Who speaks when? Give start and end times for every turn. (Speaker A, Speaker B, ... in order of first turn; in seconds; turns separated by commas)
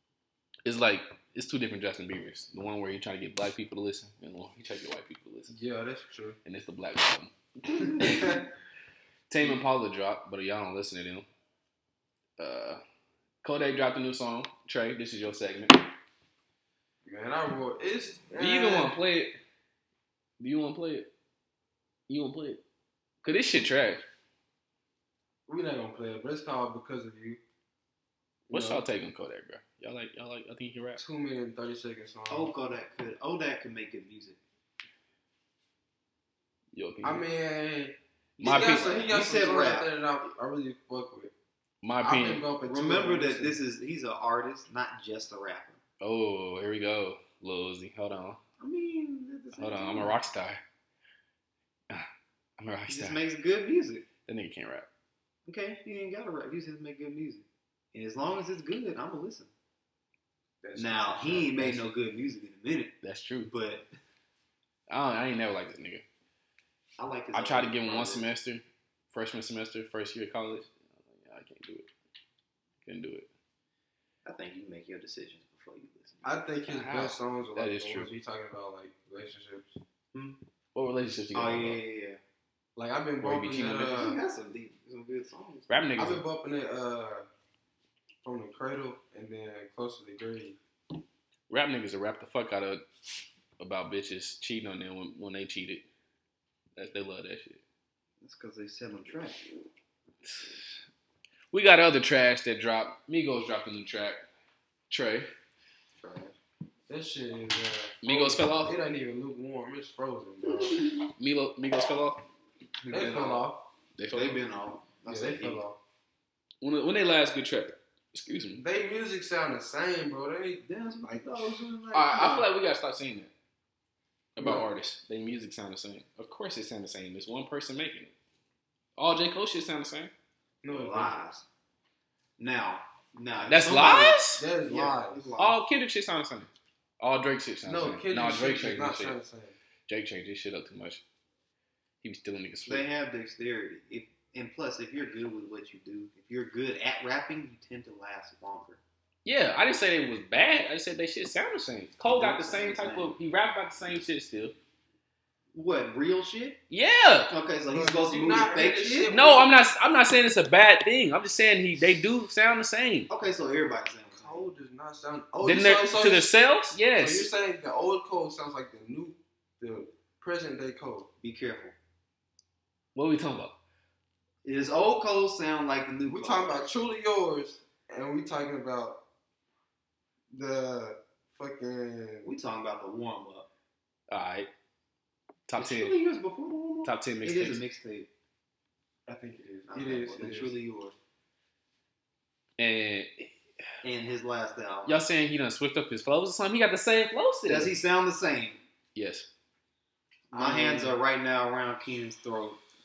Speaker A: 0.7-5.5, Speaker B: 5.5-6.4, Speaker A: 6.5-8.4, Speaker B: 7.9-8.4, Speaker A: 9.3-11.3, Speaker A: 12.4-12.8, Speaker A: 13.4-15.8, Speaker B: 17.0-18.9, Speaker A: 18.3-19.4, Speaker A: 20.4-21.1, Speaker A: 22.1-22.6, Speaker A: 23.2-24.0, Speaker B: 25.5-27.4, Speaker B: 28.5-28.8, Speaker A: 28.5-31.0, Speaker B: 31.0-32.5, Speaker C: 32.3-34.4, Speaker A: 36.7-37.2, Speaker B: 37.0-41.3, Speaker A: 38.4-39.1, Speaker C: 38.4-39.9, Speaker A: 41.8-42.5, Speaker B: 42.0-43.6, Speaker C: 42.6-45.8, Speaker A: 46.0-48.4, Speaker C: 48.6-50.2, Speaker A: 49.5-50.6, Speaker A: 52.6-53.2, Speaker C: 52.9-54.1, Speaker A: 54.3-54.9, Speaker C: 55.5-59.5, Speaker B: 60.6-61.9, Speaker C: 60.8-63.0, Speaker A: 63.0-63.5, Speaker C: 63.5-63.9, Speaker A: 64.9-66.0, Speaker C: 67.0-68.3, Speaker A: 67.3-71.9, Speaker A: 72.8-73.3, Speaker C: 74.2-76.4, Speaker B: 76.2-79.8, Speaker A: 76.7-78.1, Speaker C: 80.1-80.4, Speaker A: 80.8-81.8, Speaker C: 81.3-82.2, Speaker B: 82.8-84.2, Speaker A: 83.2-83.9, Speaker C: 83.6-85.8, Speaker A: 85.7-86.2, Speaker B: 86.0-87.3, Speaker B: 88.2-90.6, Speaker A: 91.5-92.8, Speaker A: 93.6-95.8, Speaker A: 96.8-97.6, Speaker C: 98.2-99.5, Speaker A: 100.2-100.7, Speaker A: 101.5-104.2, Speaker A: 104.9-105.3, Speaker C: 106.0-106.3, Speaker B: 106.9-110.9, Speaker A: 108.0-108.8, Speaker A: 111.2-112.2, Speaker C: 112.8-113.4, Speaker B: 112.9-113.7, Speaker A: 114.0-114.4, Speaker C: 114.1-115.6, Speaker B: 115.1-115.8, Speaker A: 116.6-118.6, Speaker B: 118.6-120.6, Speaker C: 120.7-122.5, Speaker A: 121.9-123.3, Speaker A: 124.3-128.1, Speaker B: 124.4-124.7, Speaker A: 129.0-130.1, Speaker B: 130.6-131.1, Speaker C: 130.7-131.5, Speaker C: 132.4-135.6, Speaker A: 133.5-134.4, Speaker B: 134.3-135.3, Speaker A: 135.4-139.2, Speaker B: 137.7-139.6, Speaker A: 139.9-141.0, Speaker A: 142.0-142.8, Speaker C: 142.6-148.8, Speaker A: 149.2-154.5, Speaker C: 152.1-153.2, Speaker C: 155.5-156.6, Speaker A: 156.7-157.3, Speaker C: 157.3-159.2, Speaker B: 157.7-159.5, Speaker A: 159.1-163.1, Speaker C: 163.1-164.4, Speaker B: 164.1-166.3, Speaker A: 165.4-167.3, Speaker B: 166.9-171.1, Speaker C: 171.2-171.8, Speaker A: 172.9-173.6, Speaker C: 174.4-176.5, Speaker B: 176.1-179.0, Speaker B: 180.3-182.3, Speaker C: 182.2-183.5, Speaker A: 184.1-184.5, Speaker A: 185.5-185.9, Speaker C: 185.6-188.1, Speaker A: 186.8-187.6, Speaker B: 189.1-190.6, Speaker C: 189.7-190.9, Speaker A: 192.6-193.3, Speaker C: 193.8-195.0, Speaker A: 194.9-197.8, Speaker C: 197.5-198.6, Speaker A: 198.9-199.3, Speaker C: 200.3-202.6, Speaker B: 200.3-201.0